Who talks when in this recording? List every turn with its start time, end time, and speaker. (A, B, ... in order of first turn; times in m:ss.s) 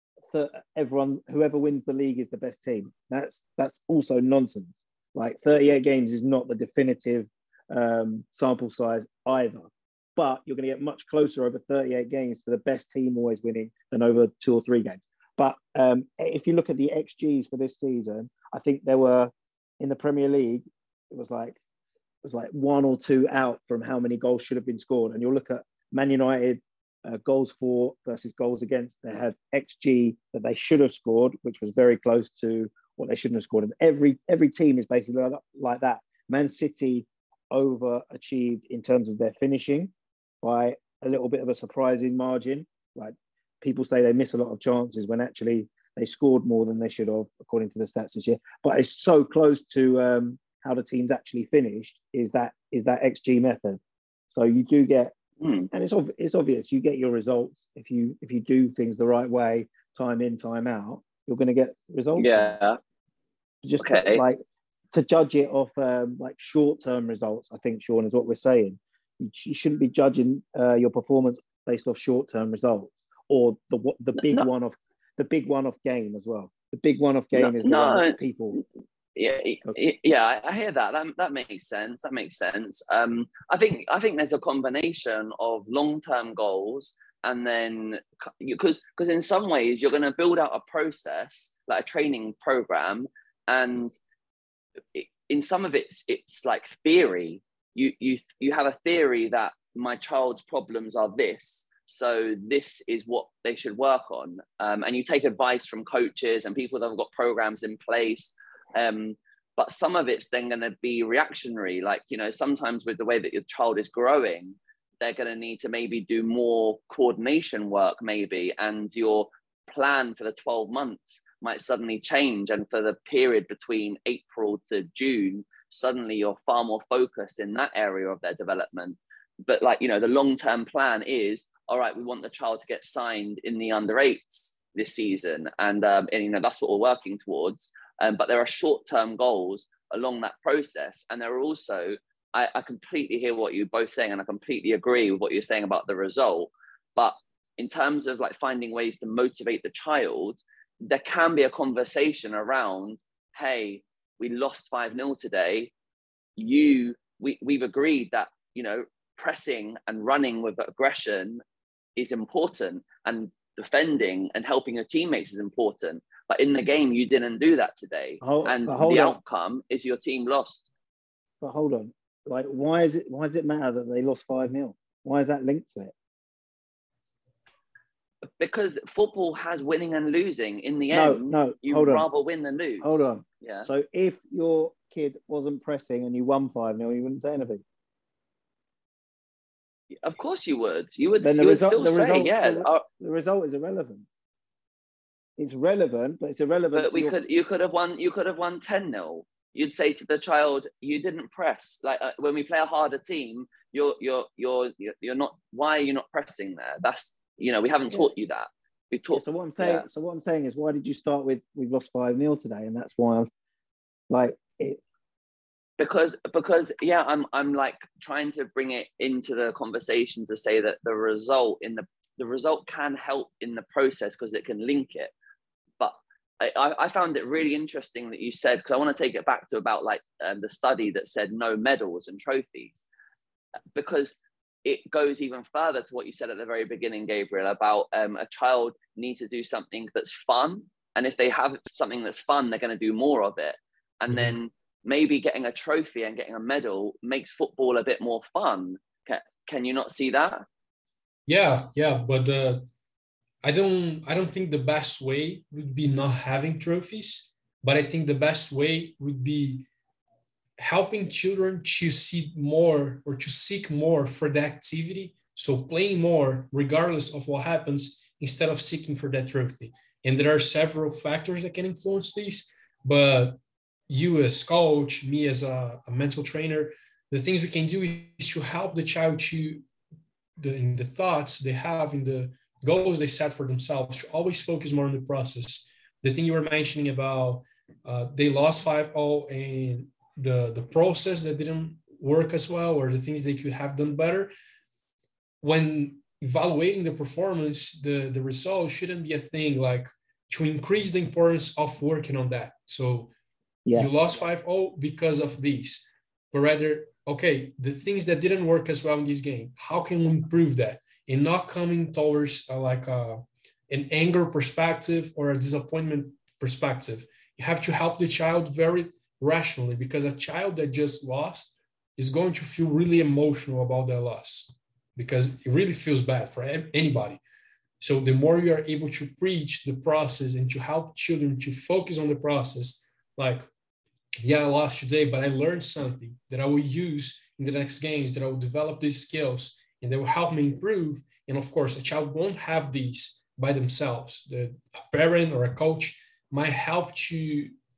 0:00.3-0:21.6 A
0:22.2-0:53.8 A
0:54.3-0:55.1 A
0:55.4-0:55.7 B
0:55.7-1:02.5 A
1:02.2-1:02.8 B
1:03.6-1:04.4 A
1:03.8-1:04.2 B
1:04.9-1:18.6 A
1:14.2-1:14.4 B
1:17.3-1:18.6 B
1:19.1-1:33.9 B
1:34.9-2:35.7 B
2:36.4-2:41.4 B
2:42.0-2:50.7 B
2:48.2-2:49.2 A
2:51.4-2:55.9 A
2:58.4-3:03.7 B
3:00.9-3:02.0 A
3:02.8-3:07.6 A
3:10.0-3:12.8 B
3:11.2-3:14.0 A
3:15.4-3:17.2 A
3:16.7-3:29.8 B
3:29.1-3:33.3 A
3:34.1-3:34.8 A
3:35.8-3:45.1 B
3:45.8-3:52.8 B
3:53.7-4:10.4 B
4:04.1-4:04.4 C
4:11.3-4:12.7 C
4:13.4-4:19.7 C
4:20.6-4:33.4 C
4:33.9-4:39.6 C
4:40.4-4:54.3 C
4:55.4-5:03.1 C
5:03.6-5:03.9 A
5:03.7-5:27.2 C
5:27.8-5:33.5 C
5:34.2-5:47.5 C